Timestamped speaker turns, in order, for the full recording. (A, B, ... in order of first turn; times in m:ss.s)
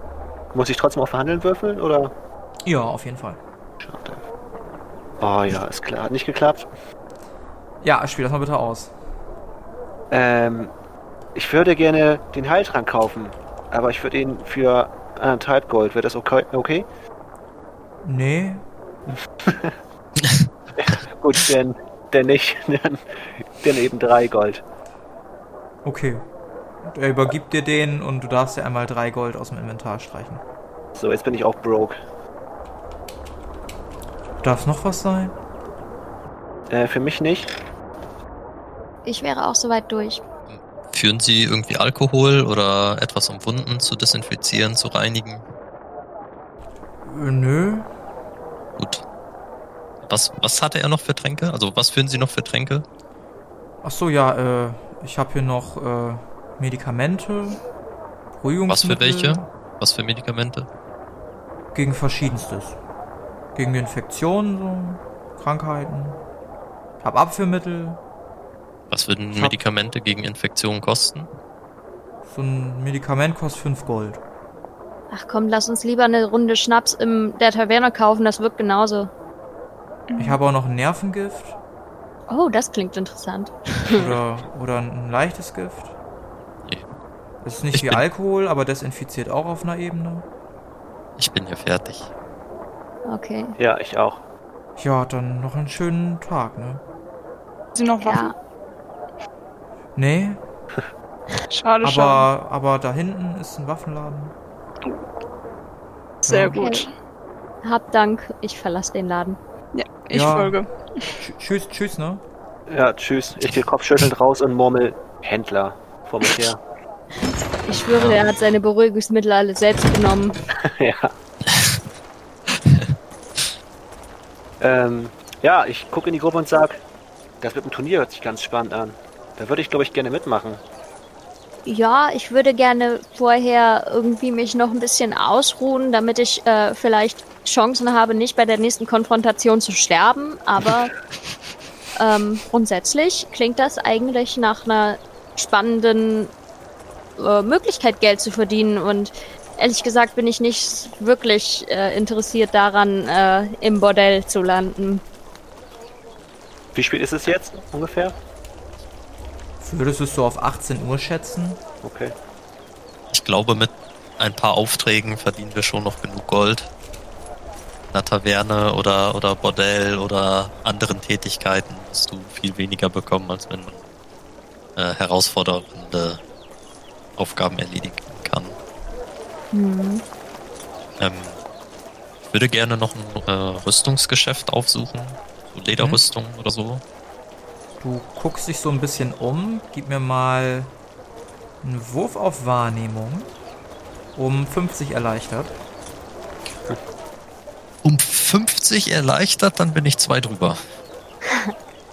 0:00.5-0:02.1 A
0:02.7-0:03.4 B
0:03.8-0:04.2 A
0:05.2-0:06.7 A
0:07.8-0:08.9 B
0:10.1-0:10.7 A
0:11.4-0:16.9 A
0:18.0-0:19.2 B
0:19.4-0:19.8 A
0:20.8-0:24.6 A
0:25.8-0:26.2 B
0:26.9-0:30.4 B
0:31.0-0:32.0 A
0:34.4-0:35.3 B
0:36.7-0:37.6 A
0:39.0-0:40.2 C
0:40.5-0:45.4 D
0:47.1-0:47.9 B
0:48.8-0:49.0 D
0:50.0-0:52.8 D
0:53.8-0:57.6 B
0:58.4-0:59.5 B
0:58.7-1:00.7 D
1:01.8-1:02.8 B
1:03.6-1:06.2 B
1:07.0-1:08.0 B
1:08.9-1:11.3 D
1:09.3-1:09.6 B
1:12.3-1:14.2 B
1:15.1-1:19.1 C
1:20.1-1:20.4 E
1:20.2-1:21.6 B
1:22.3-1:24.2 C
1:23.9-1:25.9 B
1:27.4-1:30.2 B
1:27.8-1:28.0 D
1:31.2-1:32.1 D
1:33.1-1:33.6 C
1:33.6-1:34.2 A
1:34.8-1:36.8 B
1:37.8-1:38.4 E
1:38.0-1:38.3 C
1:40.0-1:40.4 B
1:41.5-1:42.3 E
1:41.8-1:44.3 B
1:46.2-1:46.9 E
1:46.3-1:46.6 B
1:46.6-1:46.8 C
1:47.6-1:49.4 C
1:49.7-1:51.2 E
1:50.1-1:50.6 B
1:51.2-1:52.2 B
1:52.7-1:56.6 A
1:57.7-2:00.4 C
1:58.0-1:58.2 D
2:00.6-2:01.1 A
2:04.6-2:06.8 A
2:07.4-2:10.6 A
2:11.7-2:21.0 C
2:22.0-2:26.3 C
2:27.2-2:35.0 C
2:36.7-2:38.2 A
2:39.6-2:41.6 B
2:41.8-2:42.1 A
2:43.1-2:46.7 D
2:47.9-2:53.8 D
2:54.8-2:56.2 D
2:57.2-2:58.6 D
2:59.5-3:00.0 C
3:01.0-3:01.4 D
3:02.2-3:06.8 D
3:07.8-3:10.7 B
3:11.6-3:13.3 B
3:14.2-3:15.5 B
3:17.8-3:20.6 D